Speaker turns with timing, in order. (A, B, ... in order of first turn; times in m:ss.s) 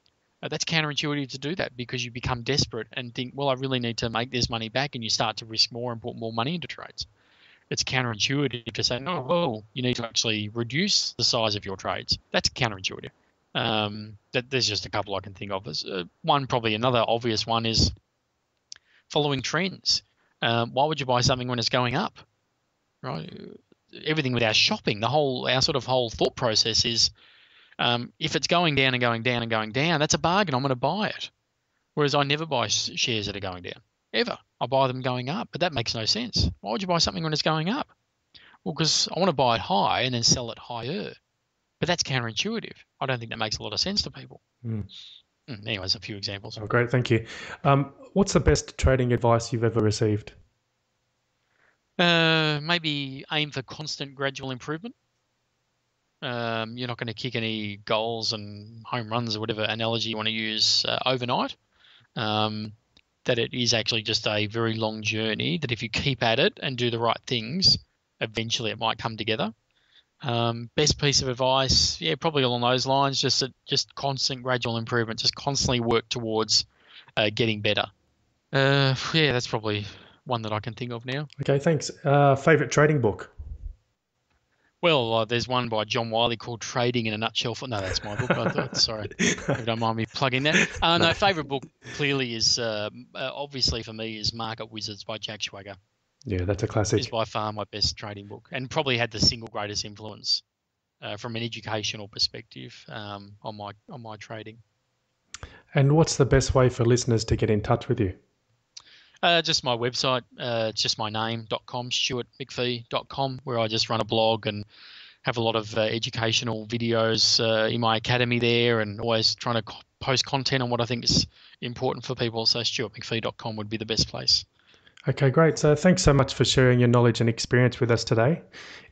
0:00.4-0:07.1 A
0:07.7-0:17.9 A
0:19.1-0:22.2 A
0:23.0-0:27.1 A
0:27.8-0:31.3 A
0:32.0-0:37.9 A
0:38.6-0:41.1 A
0:41.8-0:44.4 A
0:44.6-0:44.9 B
0:45.5-0:46.6 A
0:46.6-0:50.4 B
0:52.0-0:54.9 A
0:56.2-1:01.6 A
1:02.2-1:09.5 A
1:10.2-1:16.6 A
1:17.2-1:17.9 A
1:18.5-1:21.3 A
1:21.4-1:23.3 B
1:24.8-1:35.8 A
1:29.3-1:29.6 B
1:36.2-1:37.1 B
1:37.0-1:40.4 A
1:41.0-1:44.6 A
1:45.7-1:48.2 B
1:49.2-1:54.6 A
1:55.2-2:04.4 A
2:05.0-2:08.5 B